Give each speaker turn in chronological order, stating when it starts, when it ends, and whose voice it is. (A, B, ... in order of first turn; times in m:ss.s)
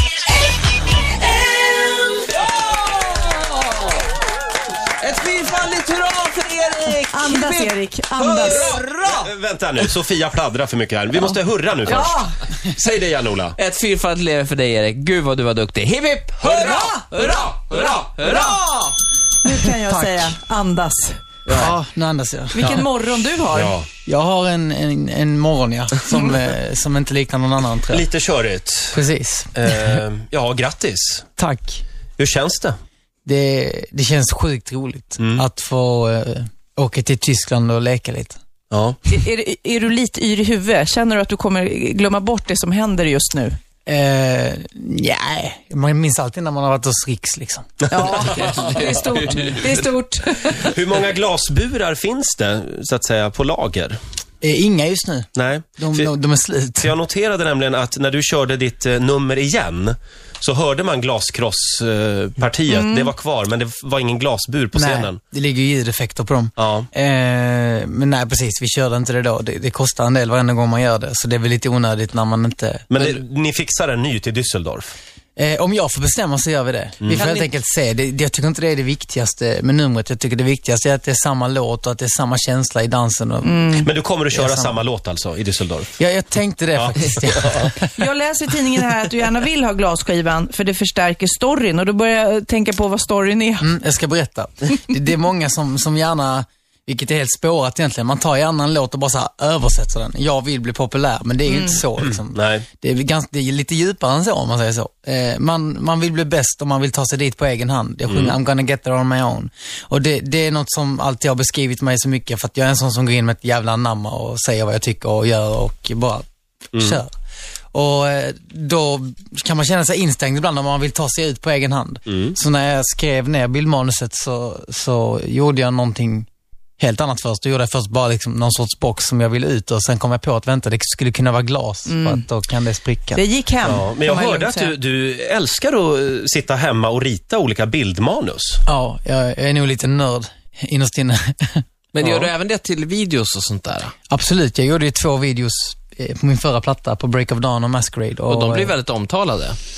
0:01.5-0:04.0 A
0:05.0-0:09.3 A
0:07.1-0:08.8 B
0:09.0-0:12.2 C
0:11.9-0:12.2 B
0:12.7-0:13.6 C
0:13.6-0:18.9 A
0:16.6-0:18.8 B
0:19.4-0:21.2 B
0:19.8-0:20.3 D
0:21.5-0:22.8 D
0:22.5-0:23.8 B
0:23.5-0:23.9 C
0:24.1-0:28.1 D
0:27.9-0:29.0 C
0:28.9-0:30.0 D
0:29.6-0:31.3 C
0:31.4-0:31.8 D
0:32.2-0:32.8 C
0:33.3-0:38.4 D
0:38.7-0:39.0 C
0:39.1-0:43.6 B
0:43.9-0:48.1 D
0:47.9-0:50.6 B
0:48.2-0:49.6 A
0:50.6-0:54.0 C
0:54.4-0:56.9 D
0:55.4-0:56.1 C
0:56.8-1:05.2 C
1:02.7-1:03.1 B
1:04.7-1:13.2 D
1:06.6-1:06.9 C
1:12.9-1:14.9 C
1:15.4-1:24.8 D
1:17.0-1:17.3 C
1:17.2-1:17.5 A
1:23.4-1:23.9 B
1:23.8-1:25.9 C
1:26.0-1:27.9 D
1:26.8-1:27.7 C
1:28.0-1:33.7 B
1:33.6-1:57.1 D
1:41.5-1:41.8 B
1:42.3-1:42.6 C
1:48.1-1:48.4 C
1:57.7-2:06.3 D
2:02.1-2:02.3 C
2:06.8-2:13.2 D
2:11.9-2:12.2 B
2:13.1-2:14.7 B
2:13.6-2:18.6 C
2:18.7-2:22.3 D
2:21.9-2:23.9 A
2:24.1-2:28.8 D
2:28.3-2:29.6 A